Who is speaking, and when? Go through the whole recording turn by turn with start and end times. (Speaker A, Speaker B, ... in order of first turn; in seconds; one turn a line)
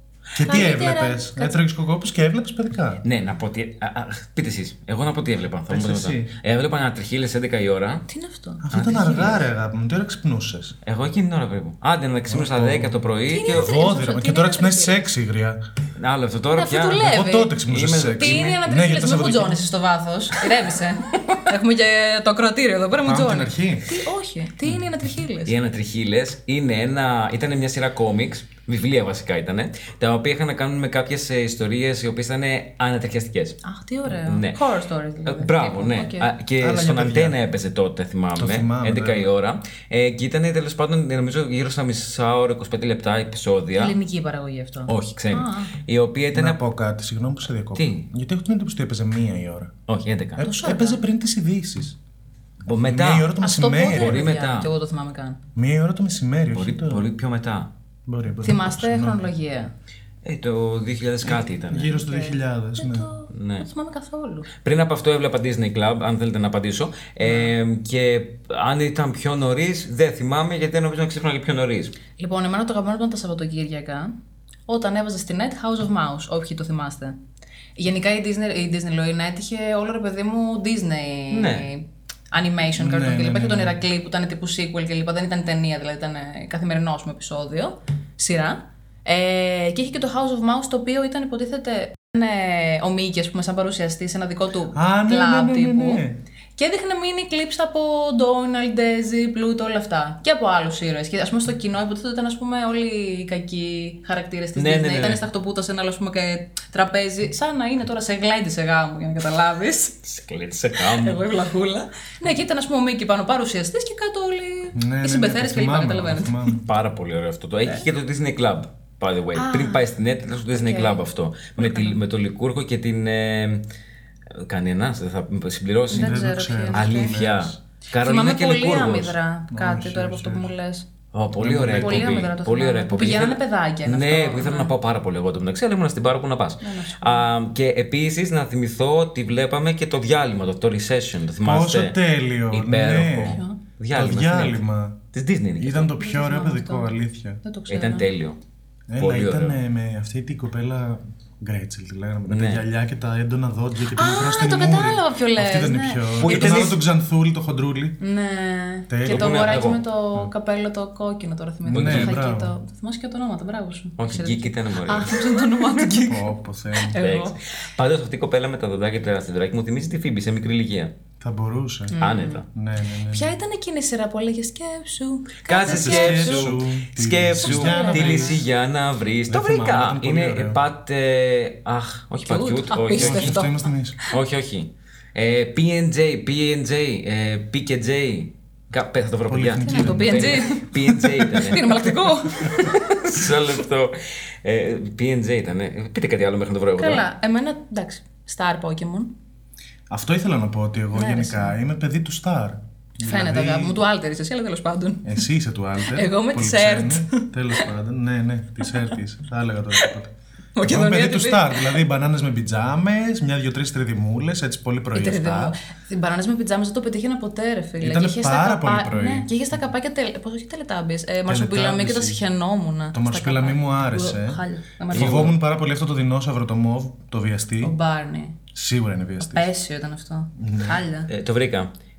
Speaker A: 0.3-3.0
Speaker B: 0.4-1.6
Speaker C: 3.0-8.1
Speaker A: 5.7-6.3
Speaker B: 8.1-9.0
Speaker A: 8.6-10.7
Speaker C: 8.7-9.4
Speaker C: 10.8-13.7
Speaker A: 12.3-13.0
Speaker B: 13.3-15.1
Speaker A: 13.5-15.6
Speaker C: 16.0-17.1
Speaker B: 16.6-17.6
Speaker A: 17.0-19.6
Speaker C: 17.6-18.6
Speaker B: 18.2-25.5
Speaker A: 23.0-23.9
Speaker C: 25.4-34.6
Speaker B: 33.6-36.3
Speaker C: 35.2-43.9
Speaker A: 36.6-37.4
Speaker A: 38.4-39.3
Speaker B: 43.7-45.7
Speaker C: 44.9-46.6
Speaker A: 46.3-49.7
Speaker C: 47.7-48.1
Speaker C: 49.9-50.4
Speaker A: 50.4-52.0
Speaker B: 50.4-51.0
Speaker C: 52.6-54.7
Speaker A: 52.8-54.2
Speaker B: 53.4-55.4
Speaker A: 55.5-57.1
Speaker C: 56.5-57.7
Speaker A: 58.1-59.3
Speaker B: 58.4-59.7
Speaker C: 60.2-61.9
Speaker A: 61.2-63.1
Speaker B: 61.9-64.5
Speaker C: 63.3-63.6
Speaker C: 64.5-71.9
Speaker B: 67.2-67.5
Speaker B: 72.2-74.1
Speaker B: 74.7-77.2
Speaker B: 77.8-96.0
Speaker C: 81.3-81.7
Speaker A: 82.8-83.7
Speaker A: 94.7-96.2
Speaker B: 96.6-110.0
Speaker C: 104.5-105.2
Speaker C: 110.0-111.2
Speaker B: 110.8-116.5
Speaker A: 114.7-116.6
Speaker C: 116.6-123.6
Speaker B: 119.3-119.8
Speaker B: 120.5-121.0
Speaker B: 121.6-122.0
Speaker C: 124.3-126.2
Speaker B: 125.9-127.2
Speaker A: 126.0-127.6
Speaker C: 126.7-129.1
Speaker B: 128.0-130.8
Speaker A: 129.5-130.5
Speaker C: 131.1-142.0
Speaker A: 131.4-132.3
Speaker B: 131.8-134.7
Speaker B: 136.6-137.3
Speaker A: 141.4-143.4
Speaker C: 142.5-144.6
Speaker B: 143.3-143.6
Speaker A: 143.9-145.0
Speaker C: 145.1-145.9
Speaker A: 145.6-147.4
Speaker B: 146.0-148.1
Speaker C: 147.7-148.4
Speaker A: 148.9-158.0
Speaker C: 149.0-149.6
Speaker C: 152.3-152.6
Speaker B: 153.9-156.8
Speaker C: 156.2-156.8
Speaker B: 158.0-167.3
Speaker A: 158.9-159.6
Speaker C: 159.1-159.8
Speaker A: 161.6-162.5
Speaker C: 161.7-162.2
Speaker C: 164.0-165.6
Speaker A: 166.0-167.0
Speaker C: 166.9-170.9
Speaker A: 171.2-173.3
Speaker B: 171.9-172.4
Speaker C: 172.0-172.4
Speaker B: 173.1-176.5
Speaker C: 175.4-183.4
Speaker A: 175.6-178.4
Speaker B: 177.4-178.4
Speaker A: 179.3-180.6
Speaker B: 182.2-184.1
Speaker A: 182.9-184.0
Speaker C: 184.1-197.0
Speaker A: 189.3-191.2
Speaker B: 189.6-193.4
Speaker B: 196.8-199.1
Speaker A: 199.9-203.8
Speaker B: 200.9-201.6
Speaker B: 203.0-205.2
Speaker A: 205.0-215.6
Speaker B: 205.8-207.7
Speaker B: 208.7-208.9
Speaker B: 210.5-211.8
Speaker B: 214.9-225.3
Speaker A: 217.8-219.3
Speaker A: 221.2-222.2
Speaker A: 222.9-227.7
Speaker C: 224.9-225.3
Speaker B: 227.6-228.3
Speaker A: 228.5-229.5
Speaker B: 229.2-231.1
Speaker A: 230.3-230.8
Speaker C: 231.1-231.7